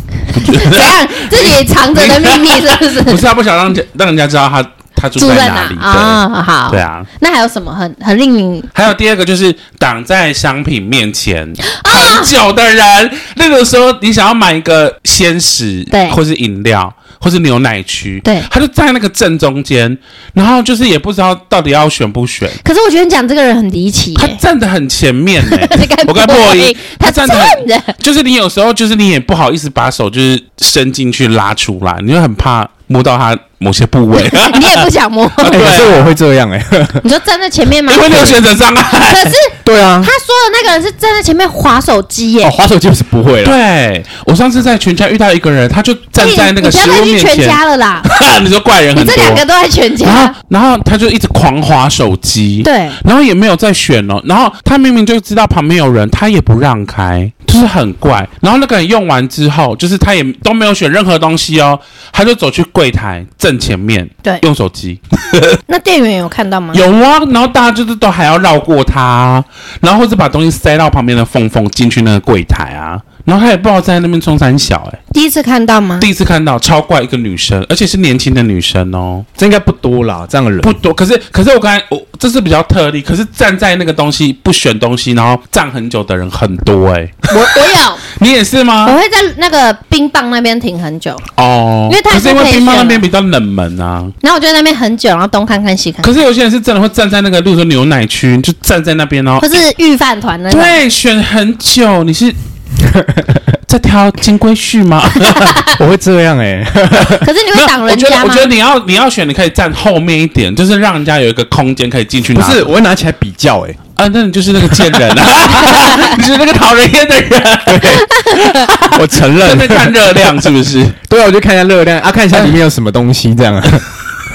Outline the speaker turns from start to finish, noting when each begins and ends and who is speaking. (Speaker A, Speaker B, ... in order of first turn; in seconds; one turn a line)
Speaker A: 0.3-7.1
Speaker B: 0.4-3.2
Speaker B: 5.2-8.7
Speaker A: 8.7-22.6
Speaker B: 11.7-12.3
Speaker B: 15.9-16.2
Speaker B: 22.6-24.4
Speaker A: 24.2-36.1
Speaker B: 25.4-27.9
Speaker B: 34.1-35.6
Speaker C: 35.5-37.1
Speaker B: 37.0-38.4
Speaker A: 37.9-39.4
Speaker B: 39.0-42.6
Speaker C: 39.6-40.1
Speaker C: 42.4-43.6
Speaker A: 43.4-49.4
Speaker B: 46.2-48.1
Speaker B: 49.0-50.3
Speaker A: 50.0-65.6
Speaker B: 52.6-53.0
Speaker B: 65.7-66.8
Speaker A: 66.7-75.0
Speaker B: 75.1-76.1
Speaker A: 76.0-79.3
Speaker C: 79.4-80.7
Speaker A: 80.6-87.5
Speaker B: 87.3-88.0
Speaker A: 88.1-89.0
Speaker B: 88.9-91.3
Speaker A: 91.4-94.1
Speaker B: 91.9-93.0
Speaker B: 94.2-96.1
Speaker A: 96.0-99.6
Speaker B: 99.4-100.8
Speaker A: 100.5-102.4
Speaker C: 102.8-103.3
Speaker A: 103.7-105.7
Speaker B: 105.4-105.7
Speaker C: 105.8-107.3
Speaker B: 107.2-108.5
Speaker A: 107.5-112.8
Speaker C: 112.3-113.8
Speaker A: 114.0-121.0
Speaker C: 117.7-118.1
Speaker C: 118.8-120.5
Speaker C: 121.0-123.9